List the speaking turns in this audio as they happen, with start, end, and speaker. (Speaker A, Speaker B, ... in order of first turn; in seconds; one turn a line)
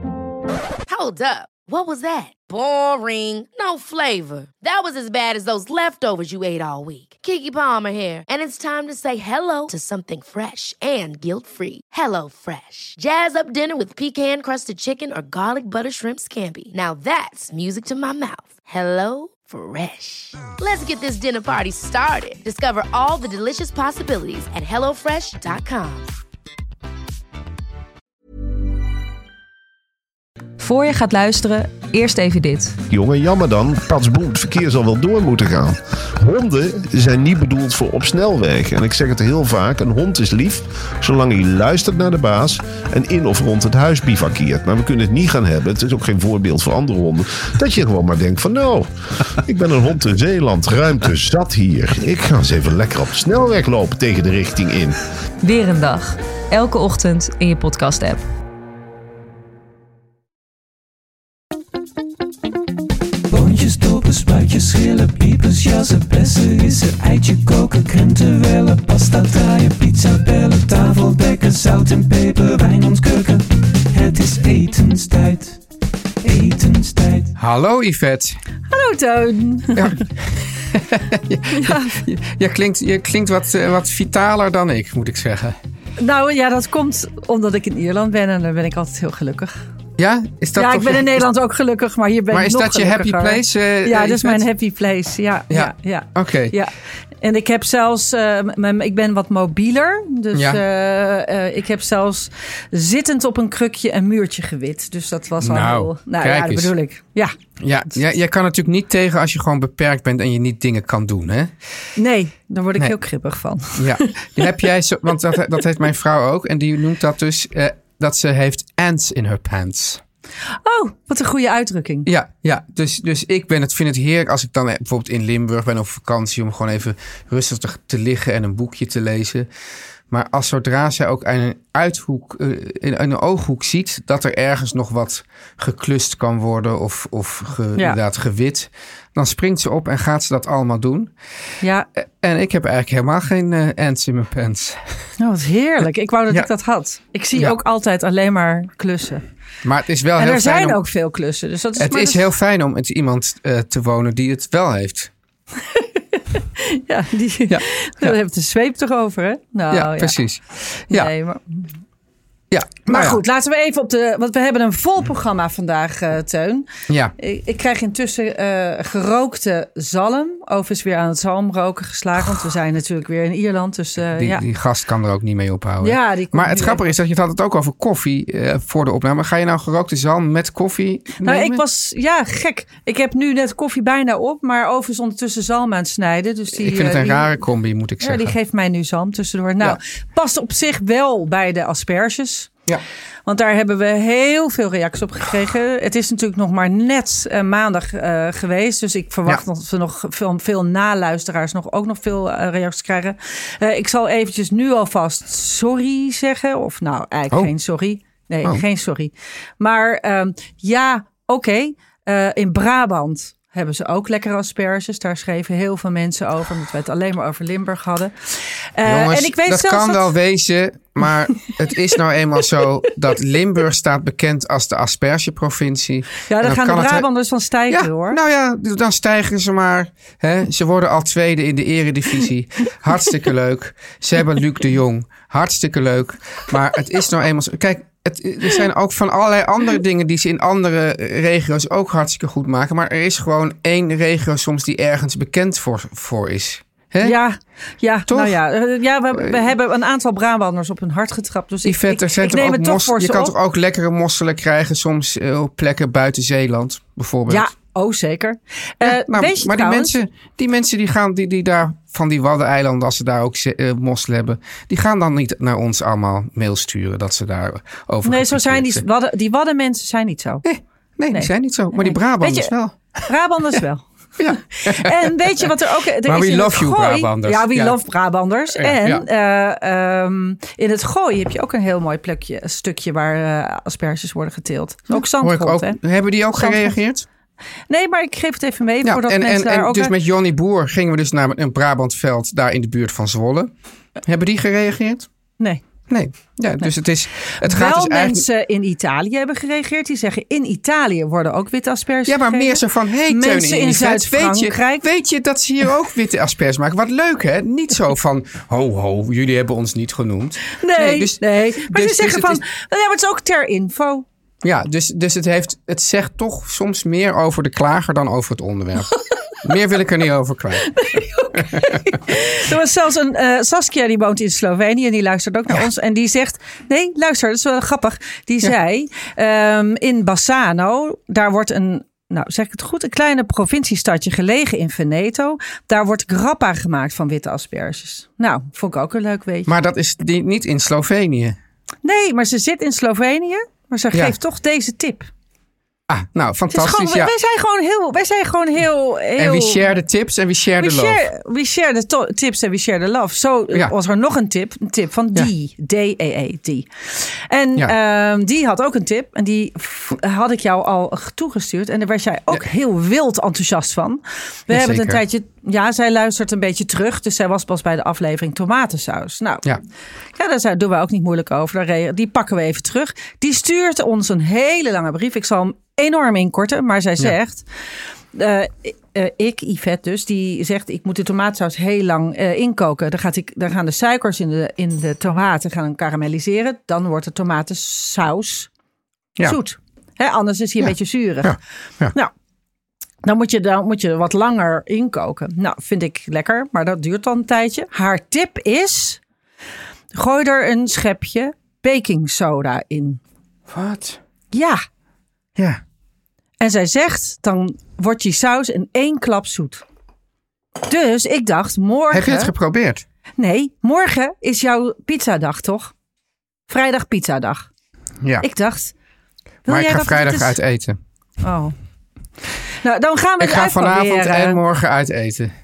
Speaker A: 0.9-26.1
Speaker B: 30.6-32.8
Speaker C: 32.9-55.0
Speaker B: 55.4-58.2
Speaker D: 63.3-75.6
Speaker D: 76.2-77.3
Speaker E: 77.4-78.4
Speaker F: 78.7-80.0
Speaker E: 79.8-85.6
Speaker F: 81.5-81.9
Speaker F: 86.0-89.6
Speaker E: 90.0-91.3
Speaker F: 90.6-107.3
Speaker E: 92.3-94.5
Speaker E: 95.5-96.6
Speaker E: 100.3-100.6
Speaker E: 105.4-106.7
Speaker E: 107.6-111.5
Speaker F: 112.0-114.6
Speaker E: 113.8-120.0
Speaker F: 120.6-122.1
Speaker E: 122.1-129.5
Speaker E: 130.1-141.1
Speaker F: 141.6-141.9
Speaker E: 142.0-144.8
Speaker F: 145.2-149.2
Speaker E: 149.6-150.9
Speaker F: 150.2-152.3
Speaker E: 151.8-155.1
Speaker F: 155.7-160.2
Speaker E: 157.5-158.2
Speaker E: 159.7-161.1
Speaker F: 160.9-161.7
Speaker E: 162.5-163.2
Speaker F: 162.9-174.4
Speaker E: 166.9-167.1
Speaker E: 174.2-181.6
Speaker F: 175.8-176.8
Speaker F: 181.2-187.3
Speaker E: 186.6-188.3
Speaker F: 188.0-192.5
Speaker F: 193.3-220.1
Speaker E: 218.8-227.1
Speaker F: 226.3-228.2
Speaker E: 227.7-247.2
Speaker F: 247.0-253.3
Speaker E: 248.1-248.4
Speaker E: 249.1-249.4
Speaker E: 251.7-257.5
Speaker F: 257.3-260.0
Speaker E: 258.8-268.8
Speaker F: 268.0-270.4
Speaker E: 270.4-272.8
Speaker F: 271.1-285.8
Speaker E: 274.2-275.5
Speaker E: 276.1-277.8
Speaker E: 278.6-279.1
Speaker E: 285.0-287.1
Speaker F: 286.4-286.8
Speaker F: 287.7-289.9
Speaker E: 288.8-293.5
Speaker E: 294.0-295.1
Speaker E: 295.9-298.2
Speaker F: 297.4-304.9
Speaker E: 302.1-312.4
Speaker F: 310.6-314.1
Speaker E: 314.4-320.8
Speaker F: 320.7-339.5
Speaker E: 321.4-321.8
Speaker E: 339.5-341.4
Speaker F: 341.8-345.1
Speaker E: 345.9-347.1
Speaker F: 346.5-349.6
Speaker E: 349.2-351.1
Speaker F: 350.6-369.4
Speaker E: 364.5-365.0
Speaker F: 370.2-377.5
Speaker F: 378.1-388.5
Speaker F: 389.2-391.4
Speaker E: 390.6-391.9
Speaker F: 393.0-399.0
Speaker F: 399.9-403.0
Speaker E: 403.5-404.0
Speaker F: 404.3-404.6
Speaker E: 405.4-405.6
Speaker F: 406.4-409.6
Speaker F: 410.6-412.3
Speaker E: 411.9-412.8
Speaker F: 413.2-415.7
Speaker F: 416.5-417.5
Speaker E: 418.0-418.3
Speaker F: 418.2-418.7
Speaker F: 419.5-420.4
Speaker E: 419.5-420.8
Speaker F: 421.2-421.5
Speaker F: 422.6-424.4
Speaker E: 423.2-425.3